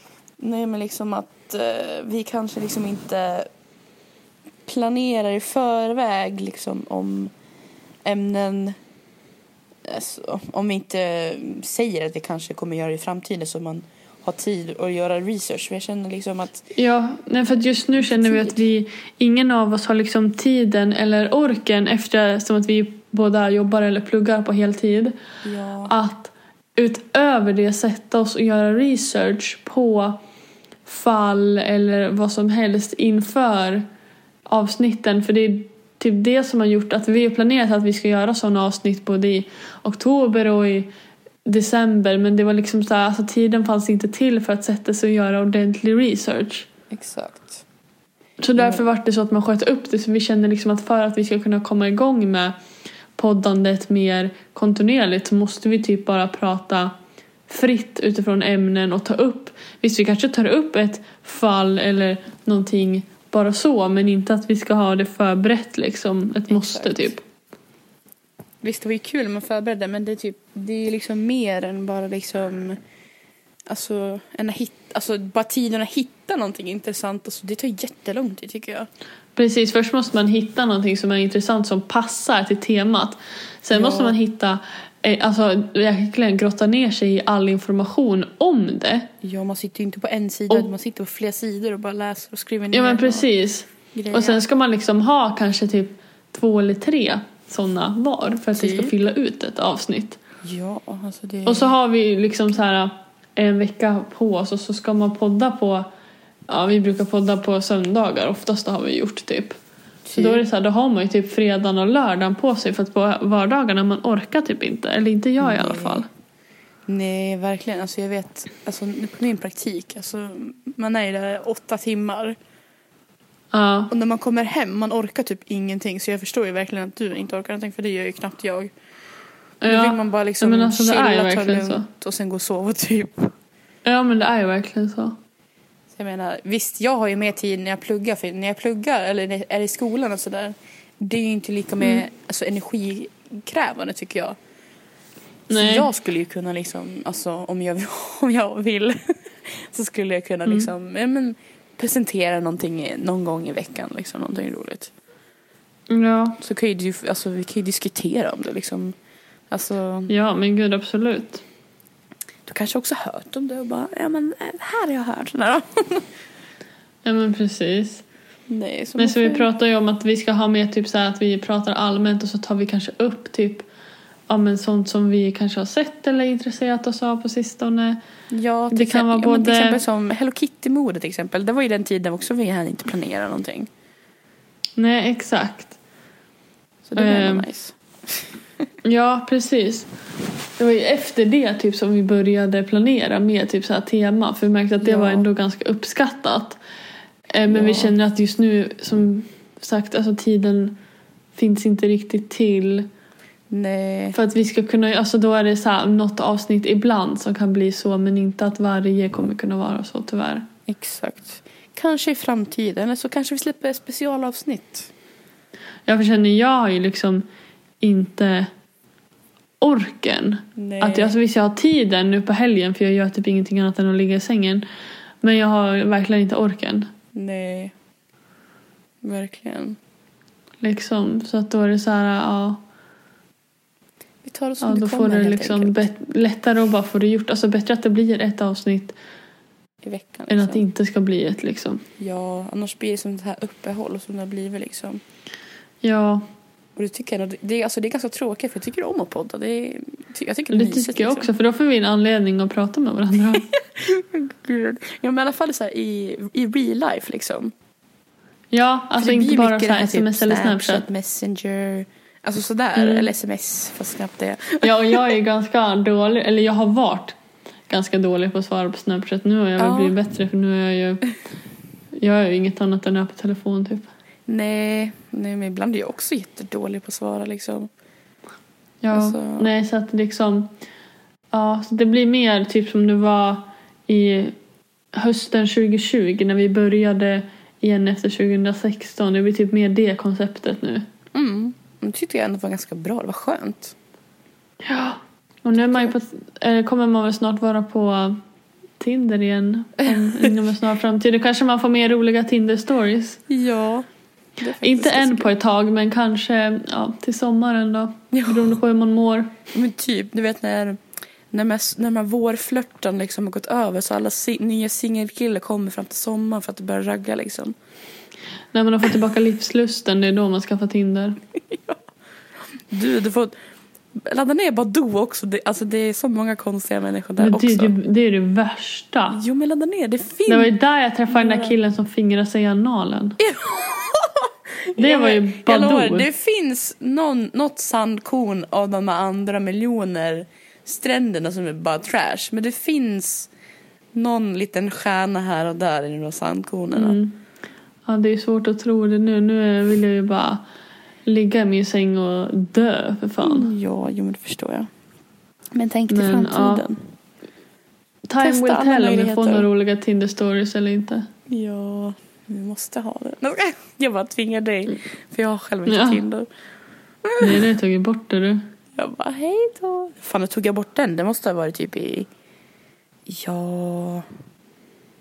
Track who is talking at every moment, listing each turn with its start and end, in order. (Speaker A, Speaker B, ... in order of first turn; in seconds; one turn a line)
Speaker A: 0.4-3.5
Speaker A: 4.7-7.3
Speaker A: 8.0-8.8
Speaker A: 9.8-16.7
Speaker B: 16.7-25.1
Speaker A: 17.5-18.7
Speaker A: 25.4-25.9
Speaker B: 25.8-30.2
Speaker B: 30.9-33.9
Speaker B: 34.5-40.9
Speaker B: 41.4-46.7
Speaker A: 46.9-47.6
Speaker B: 48.4-52.6
Speaker A: 48.6-48.9
Speaker B: 53.1-56.9
Speaker B: 57.5-67.2
Speaker A: 66.5-67.1
Speaker A: 68.6-72.8
Speaker A: 73.7-78.9
Speaker B: 79.3-89.1
Speaker A: 83.7-84.2
Speaker A: 89.2-93.3
Speaker B: 92.7-100.2
Speaker A: 93.9-94.4
Speaker A: 98.5-98.9
Speaker A: 100.4-101.8
Speaker B: 101.5-105.9
Speaker B: 106.5-109.5
Speaker A: 110.0-110.4
Speaker B: 110.1-116.1
Speaker A: 115.4-116.1
Speaker A: 116.8-122.3
Speaker B: 123.5-123.9
Speaker A: 123.9-128.7
Speaker B: 129.6-131.9
Speaker A: 129.6-133.3
Speaker B: 133.8-135.1
Speaker A: 135.9-144.3
Speaker B: 145.5-145.9
Speaker A: 145.5-154.9
Speaker B: 155.9-156.4
Speaker A: 156.4-158.9
Speaker A: 159.5-160.1
Speaker B: 160.1-161.4
Speaker A: 162.4-166.1
Speaker B: 167.0-168.0
Speaker A: 168.5-169.5
Speaker B: 169.0-173.7
Speaker B: 174.3-178.0
Speaker A: 178.3-183.7
Speaker B: 178.7-179.8
Speaker B: 184.8-185.7
Speaker A: 186.8-188.2
Speaker B: 186.9-187.5
Speaker B: 188.8-189.9
Speaker B: 190.6-196.6
Speaker A: 194.8-195.3
Speaker B: 197.3-200.8
Speaker A: 197.5-197.9
Speaker B: 201.3-202.9
Speaker A: 203.5-204.2
Speaker B: 204.1-210.5
Speaker A: 210.7-214.9
Speaker B: 215.9-217.2
Speaker B: 217.8-218.5
Speaker B: 219.6-224.6
Speaker A: 220.6-221.1
Speaker B: 225.2-226.9
Speaker A: 227.1-227.7
Speaker A: 229.0-229.8
Speaker B: 230.6-232.6
Speaker A: 234.2-235.9
Speaker B: 234.6-239.0
Speaker A: 239.8-240.6
Speaker B: 240.3-241.8
Speaker A: 242.0-245.0
Speaker B: 245.8-246.2
Speaker A: 246.8-251.3
Speaker B: 250.5-253.5
Speaker A: 253.3-257.5
Speaker B: 258.5-260.9
Speaker A: 259.0-265.0
Speaker B: 262.8-263.1
Speaker B: 264.6-267.2
Speaker B: 267.7-271.0
Speaker A: 269.6-269.9
Speaker B: 271.9-273.9
Speaker A: 274.3-277.7
Speaker B: 278.8-280.5
Speaker A: 278.9-279.5
Speaker B: 281.3-284.4
Speaker B: 284.9-290.8
Speaker A: 291.1-293.7
Speaker B: 294.6-298.2
Speaker A: 295.6-295.9
Speaker B: 298.8-303.2
Speaker A: 299.8-300.4
Speaker A: 303.3-303.9
Speaker A: 304.4-305.3
Speaker B: 304.6-309.4
Speaker A: 308.1-308.5
Speaker A: 309.5-317.5
Speaker B: 318.5-321.2
Speaker A: 321.4-321.8
Speaker A: 322.5-323.3
Speaker A: 323.9-327.7
Speaker B: 327.2-329.2
Speaker A: 329.1-330.5
Speaker B: 330.3-333.2
Speaker A: 331.1-331.6
Speaker A: 333.2-343.3
Speaker B: 334.8-336.1
Speaker A: 343.9-347.0
Speaker B: 346.7-347.2
Speaker B: 347.9-350.4
Speaker B: 351.1-353.5
Speaker A: 353.2-354.7
Speaker A: 355.5-356.8
Speaker B: 355.9-356.6
Speaker B: 358.1-361.1
Speaker A: 358.2-359.5
Speaker A: 361.3-366.3
Speaker B: 365.7-366.0
Speaker A: 367.0-367.5
Speaker B: 367.2-368.4
Speaker A: 368.7-372.1
Speaker A: 373.1-374.1